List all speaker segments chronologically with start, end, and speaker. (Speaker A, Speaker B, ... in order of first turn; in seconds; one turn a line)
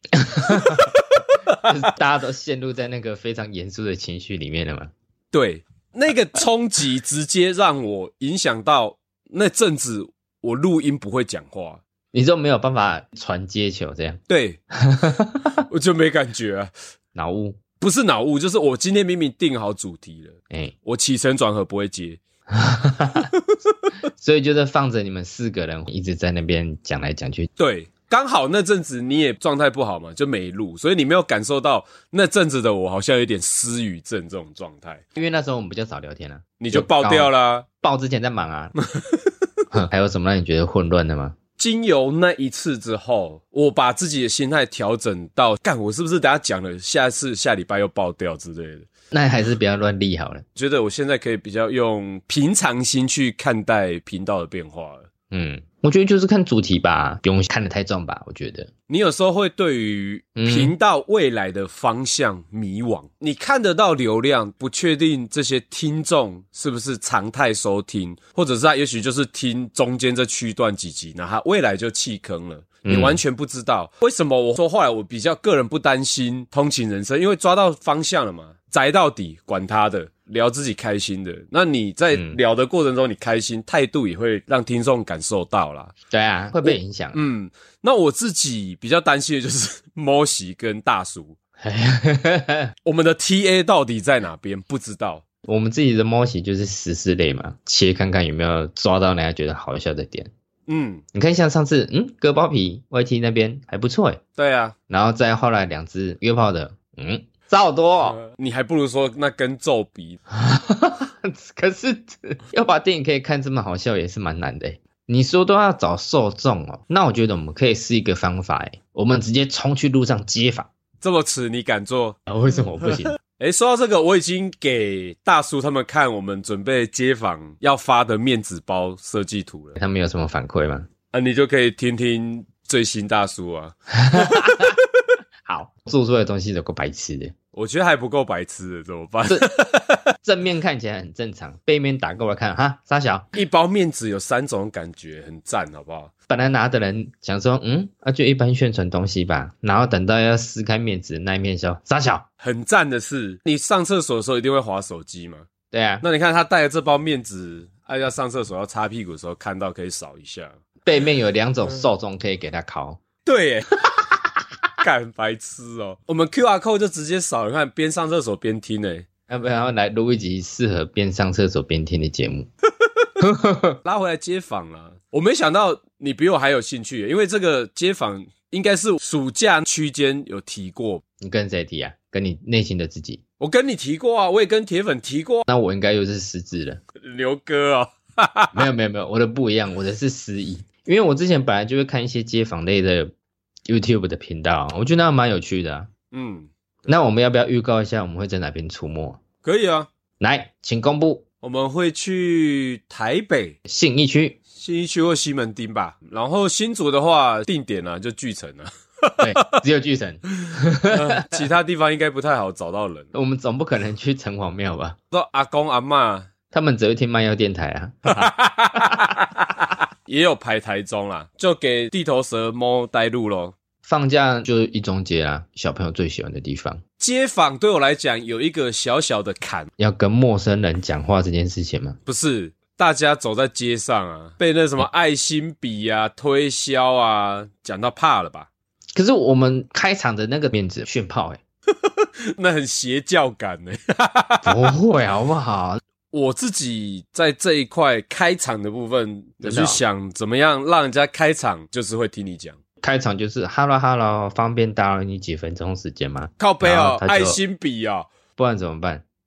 Speaker A: 0.2-0.9
Speaker B: 0.4-1.6
Speaker A: 1.6-4.9
Speaker B: 5.3-11.8
Speaker A: 12.1-14.2
Speaker B: 14.3-14.6
Speaker A: 14.8-15.5
Speaker B: 15.7-16.7
Speaker A: 17.1-17.6
Speaker B: 17.8-22.2
Speaker A: 22.5-23.3
Speaker A: 24.2-27.5
Speaker B: 27.6-35.0
Speaker A: 35.1-38.7
Speaker B: 36.6-37.6
Speaker A: 39.7-41.4
Speaker B: 41.6-48.9
Speaker A: 49.1-50.4
Speaker B: 50.5-55.1
Speaker A: 55.3-58.7
Speaker B: 58.9-85.9
Speaker A: 60.4-60.7
Speaker A: 72.8-73.2
Speaker A: 86.1-87.2
Speaker B: 86.6-91.3
Speaker A: 91.6-92.7
Speaker B: 92.8-95.2
Speaker A: 95.4-100.3
Speaker B: 100.7-101.0
Speaker A: 101.1-104.2
Speaker B: 104.4-104.7
Speaker A: 104.9-108.2
Speaker B: 108.1-110.2
Speaker A: 110.3-120.7
Speaker B: 121.0-122.2
Speaker A: 122.3-123.2
Speaker B: 123.3-129.8
Speaker A: 129.8-130.9
Speaker B: 131.1-134.7
Speaker A: 134.0-134.7
Speaker A: 135.4-137.3
Speaker B: 137.5-140.0
Speaker A: 140.2-143.3
Speaker B: 143.3-146.1
Speaker A: 146.3-152.2
Speaker B: 152.4-155.5
Speaker A: 155.7-156.0
Speaker B: 156.0-160.5
Speaker A: 160.8-163.0
Speaker B: 163.2-163.7
Speaker B: 164.8-169.1
Speaker A: 169.3-172.5
Speaker A: 173.2-173.8
Speaker B: 173.8-181.0
Speaker A: 181.2-183.2
Speaker B: 183.4-185.4
Speaker A: 185.5-186.8
Speaker B: 187.0-188.6
Speaker A: 188.5-193.1
Speaker A: 193.7-195.9
Speaker B: 196.1-196.5
Speaker A: 196.9-199.2
Speaker B: 199.4-199.9
Speaker A: 200.2-201.2
Speaker B: 201.4-203.6
Speaker A: 203.7-204.4
Speaker B: 204.5-209.6
Speaker A: 209.2-211.4
Speaker B: 210.9-213.1
Speaker A: 213.1-215.0
Speaker B: 215.1-216.3
Speaker A: 216.5-218.3
Speaker B: 218.2-223.6
Speaker A: 223.8-226.8
Speaker B: 227.0-229.7
Speaker A: 229.8-232.0
Speaker B: 232.1-238.5
Speaker A: 238.9-241.4
Speaker B: 241.9-244.7
Speaker A: 244.4-245.8
Speaker B: 246.1-252.6
Speaker A: 249.4-249.8
Speaker A: 252.8-257.4
Speaker B: 256.4-258.1
Speaker A: 258.4-259.0